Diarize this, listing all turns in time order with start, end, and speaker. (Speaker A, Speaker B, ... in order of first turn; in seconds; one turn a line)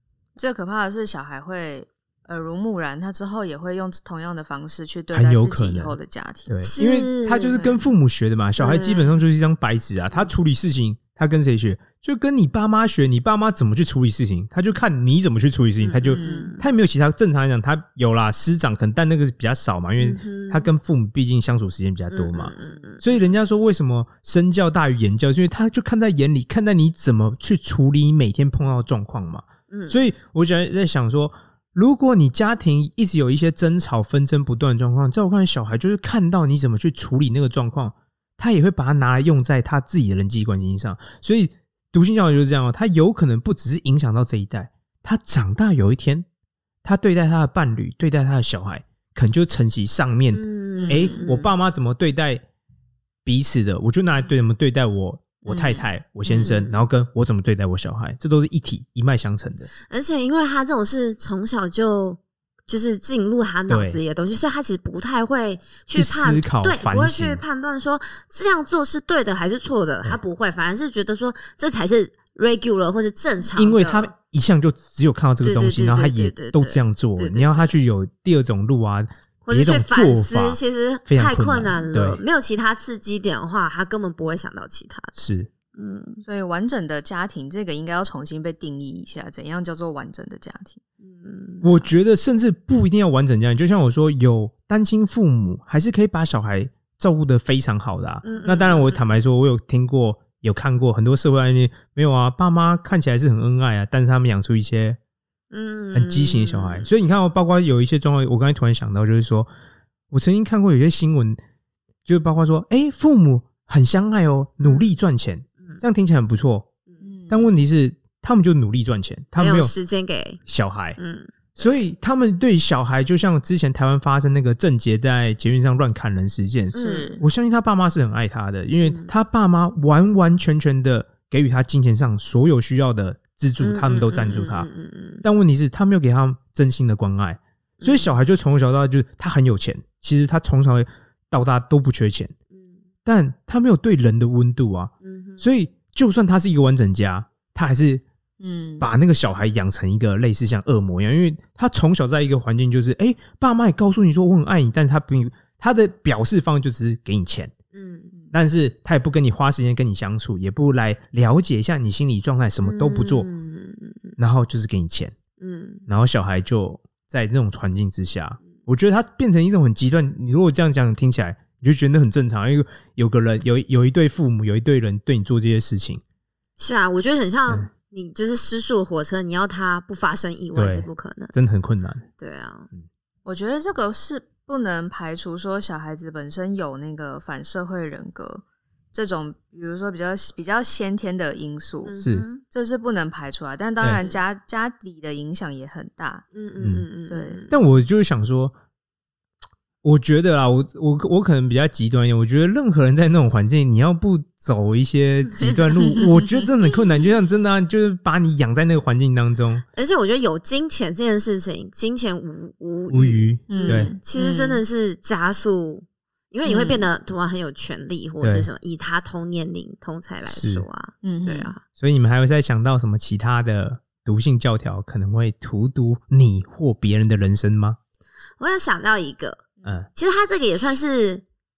Speaker A: 0.4-6.6
Speaker B: 5.1-46.3
Speaker C: 6.6-7.6
Speaker A: 7.5-7.9
Speaker C: 8.6-9.2
Speaker C: 15.8-16.7
Speaker A: 16.1-16.5
Speaker C: 20.0-20.7
Speaker C: 22.1-23.2
Speaker C: 29.7-30.0
Speaker B: 46.8-52.4
Speaker C: 50.3-51.5
Speaker A: 50.8-51.2
Speaker B: 53.2-59.7
Speaker A: 55.5-55.8
Speaker C: 56.3-56.8
Speaker C: 59.9-74.1
Speaker B: 63.7-64.0
Speaker B: 65.9-67.4
Speaker B: 73.6-82.2
Speaker C: 75.4-77.7
Speaker C: 79.5-85.2
Speaker B: 85.2-85.5
Speaker C: 85.7-86.2
Speaker A: 86.2-90.8
Speaker C: 91.0-91.9
Speaker B: 91.6-105.0
Speaker C: 98.2-99.0
Speaker C: 105.5-106.9
Speaker B: 105.9-109.5
Speaker B: 110.1-111.4
Speaker B: 112.0-116.7
Speaker C: 114.6-114.9
Speaker A: 117.0-117.5
Speaker B: 117.3-119.7
Speaker C: 119.4-120.4
Speaker B: 120.5-121.0
Speaker C: 121.0-121.3
Speaker B: 121.6-134.7
Speaker C: 126.7-127.1
Speaker A: 126.7-127.2
Speaker C: 128.8-129.1
Speaker C: 133.6-135.2
Speaker B: 135.2-142.3
Speaker C: 137.8-138.1
Speaker C: 142.5-142.8
Speaker B: 143.1-148.0
Speaker C: 145.0-145.4
Speaker A: 148.4-148.9
Speaker B: 148.8-157.5
Speaker C: 157.7-158.1
Speaker B: 158.3-163.3
Speaker C: 162.6-164.2
Speaker B: 164.2-165.2
Speaker C: 165.4-165.9
Speaker B: 165.9-176.0
Speaker C: 176.6-181.3
Speaker B: 180.6-182.1
Speaker C: 182.2-182.7
Speaker A: 183.2-196.3
Speaker C: 191.8-192.4
Speaker C: 193.8-194.2
Speaker C: 196.3-197.5
Speaker B: 196.6-196.9
Speaker A: 197.1-197.5
Speaker B: 197.5-198.5
Speaker B: 199.8-209.6
Speaker C: 205.3-206.2
Speaker C: 209.8-221.6
Speaker B: 212.9-214.0
Speaker A: 213.5-214.6
Speaker A: 216.4-216.9
Speaker B: 218.2-218.5
Speaker B: 220.3-220.7
Speaker A: 221.0-221.5
Speaker B: 221.8-227.8
Speaker C: 228.4-231.2